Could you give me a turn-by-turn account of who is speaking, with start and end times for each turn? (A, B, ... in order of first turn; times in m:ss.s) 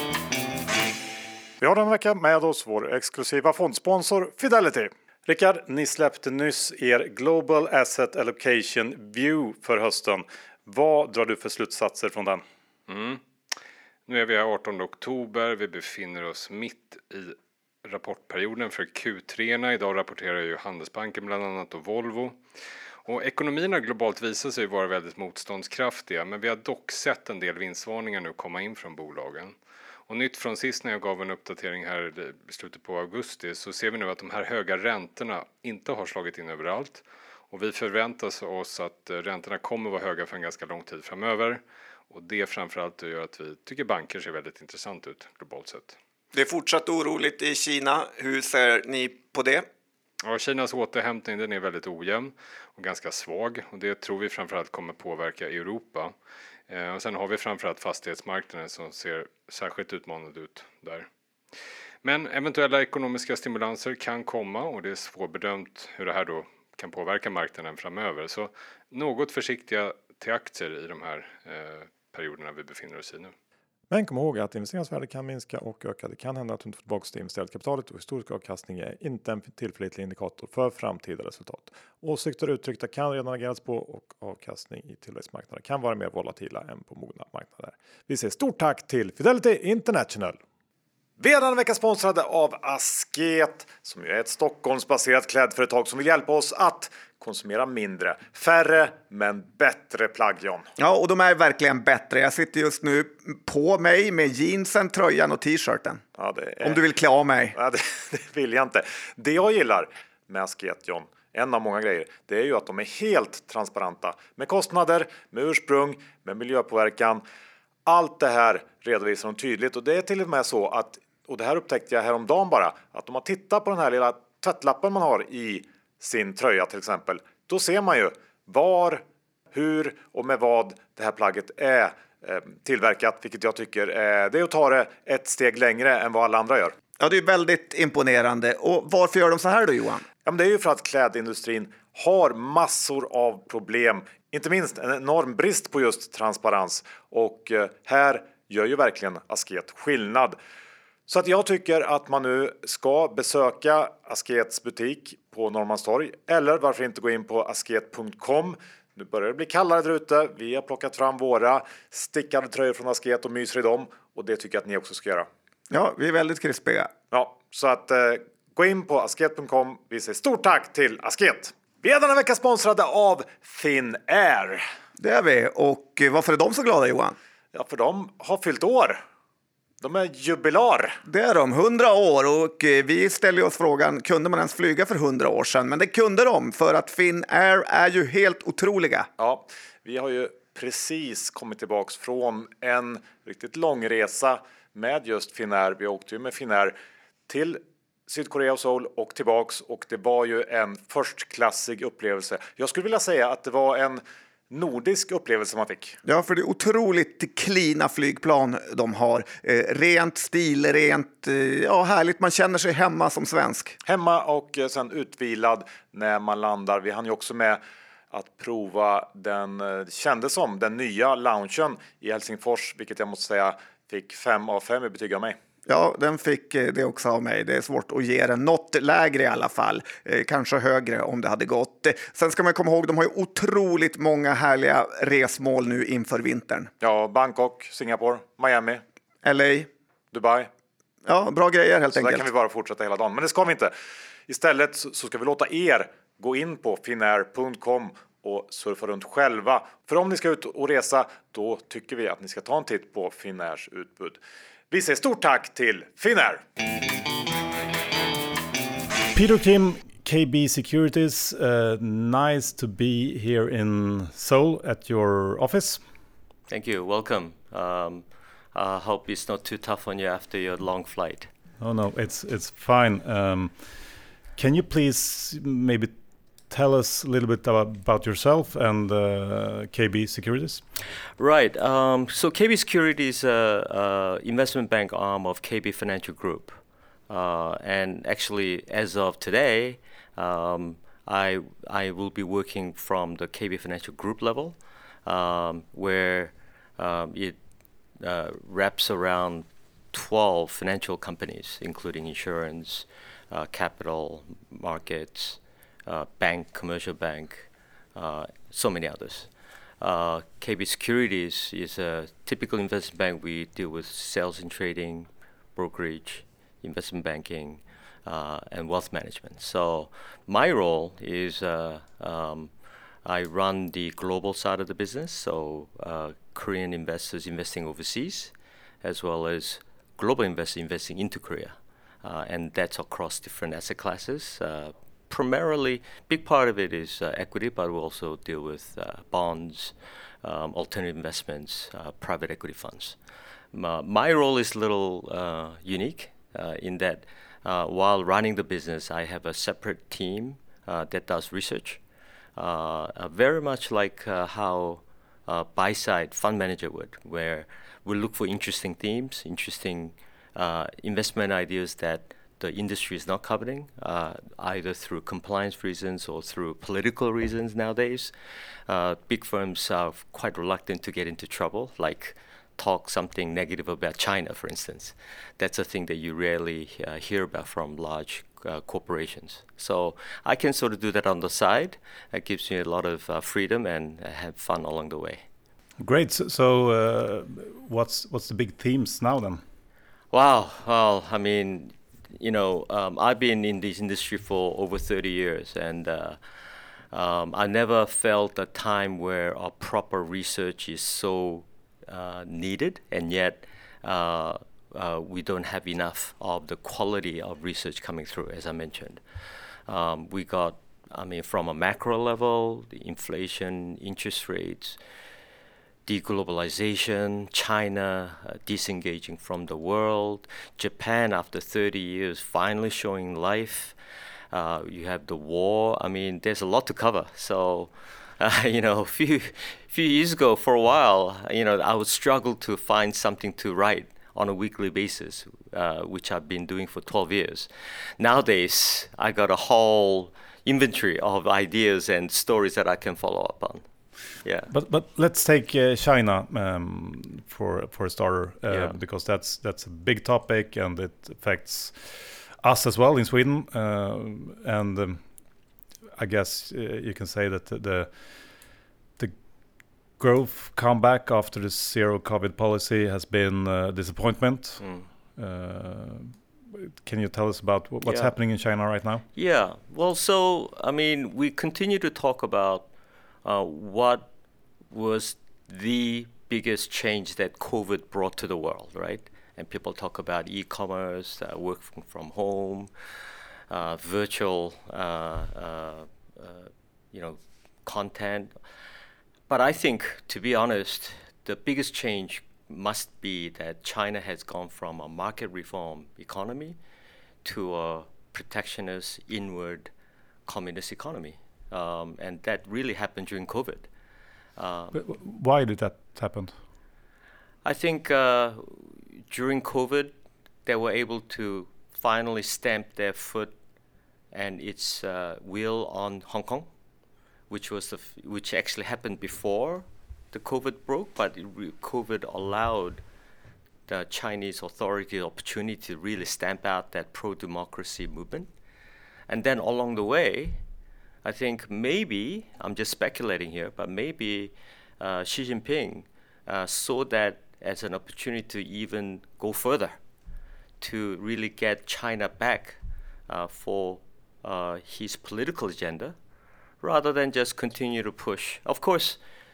0:01.6-0:12.4 A
0:12.9-0:13.2 B
0:14.1-0:22.4 B
0:23.0-0:29.5 B
0:30.1-0:46.0 B
0:46.3-0:49.6 C
0:50.2-0:56.1 B
0:56.7-1:01.1 B
1:02.0-1:13.3 B
1:13.9-1:30.4 A
1:31.2-1:40.7 A
1:40.8-1:46.0 C
1:46.2-1:46.8 A
1:46.6-1:47.6 C
1:47.5-1:57.2 A
1:57.9-2:16.7 A
2:17.0-2:20.0 C
2:20.2-2:30.4 A
2:31.1-2:45.3 A
2:45.7-2:46.9 C
2:47.1-2:54.6 A
2:55.0-2:57.2 C
2:57.5-2:59.0 A
2:59.8-3:01.0 A
3:01.0-3:09.1 C
3:09.2-3:16.7 A
3:17.3-3:26.0 A
3:26.0-3:33.8 C
3:33.8-3:37.6 A
3:38.1-3:45.4 A
3:45.7-3:56.7 C
3:56.8-3:58.8 A
3:59.2-3:59.7 C
4:00.1-4:00.5 A
4:01.0-4:02.2 C
4:02.0-4:03.7 A
4:04.3-4:14.2 A
4:14.7-4:16.4 A
4:19.1-4:25.8 D
4:26.5-4:31.3 E
4:31.6-4:36.0 D
4:36.5-4:40.6 D
4:41.2-4:57.4 E
4:58.0-5:09.3 E
5:09.8-5:22.5 E
5:23.0-5:43.0 E
5:43.5-5:51.8 E
5:52.4-6:08.1 E
6:08.7-6:25.2 E
6:25.8-6:29.4 D
6:30.1-6:36.2 E
6:36.9-6:49.0 E
6:49.7-6:54.8 E
6:55.9-7:03.7 E
7:04.3-7:23.6 E
7:24.2-7:24.5 E
7:24.5-7:35.0 D
7:28.5-7:28.8 E
7:36.0-7:38.4 D
7:40.0-7:49.0 D
7:44.6-7:44.9 E
7:47.8-7:48.1 E
7:49.1-7:52.7 E
7:53.2-7:54.1 E
7:54.7-8:02.7 E
8:03.5-8:08.4 E
8:09.3-8:16.6 E
8:17.2-8:19.7 E
8:20.3-8:23.7 E
8:24.4-8:24.7 E
8:24.7-8:26.3 D
8:27.4-8:29.9 E
8:30.4-8:33.3 E
8:34.1-8:36.5 E
8:37.3-8:42.8 E
8:43.7-8:48.3 E
8:49.1-8:50.4 E
8:51.0-8:59.8 E
9:00.6-9:06.0 E
9:06.6-9:09.0 E